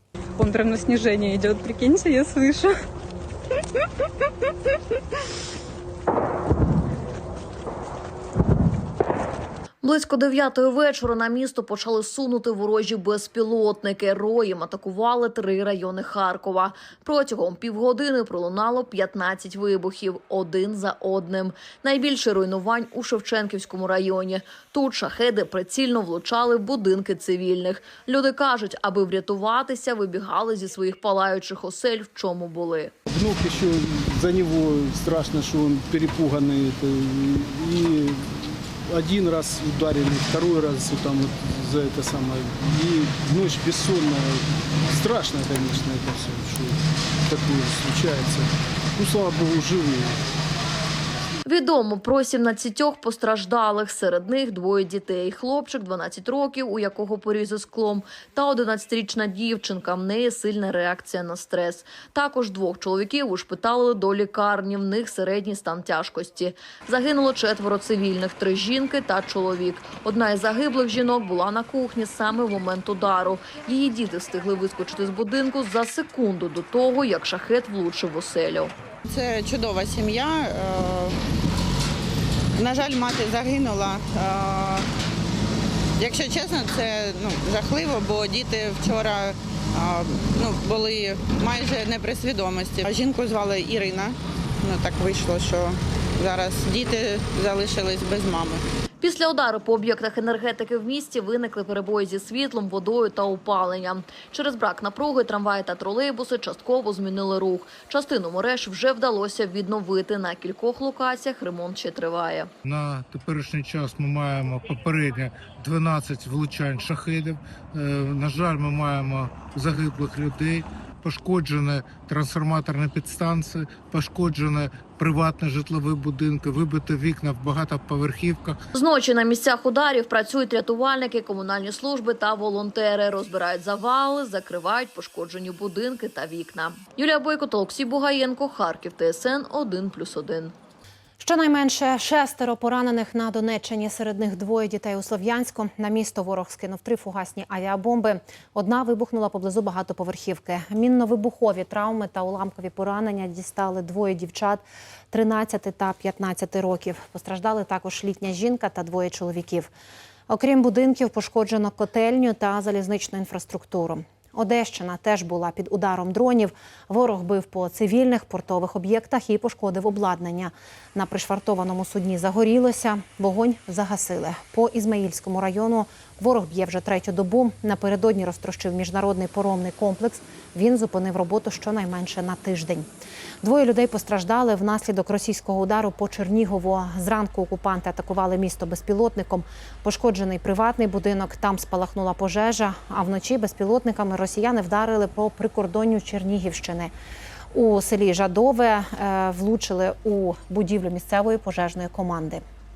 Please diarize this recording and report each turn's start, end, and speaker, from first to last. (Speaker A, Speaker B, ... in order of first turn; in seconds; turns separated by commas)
Speaker A: 0.4-2.8, Speaker B: 9.8-32.9, Speaker C: 33.1-50.2, Speaker B: 51.5-78.7, Speaker D: 79.1-81.2, Speaker D: 82.6-84.9, Speaker D: 86.0-98.6, Speaker B: 99.0-112.5, Speaker E: 112.6-128.6, Speaker B: 128.7-140.5, Speaker F: 141.2-159.7, Speaker F: 160.3-182.9, Speaker F: 183.4-196.9, Speaker F: 197.5-202.4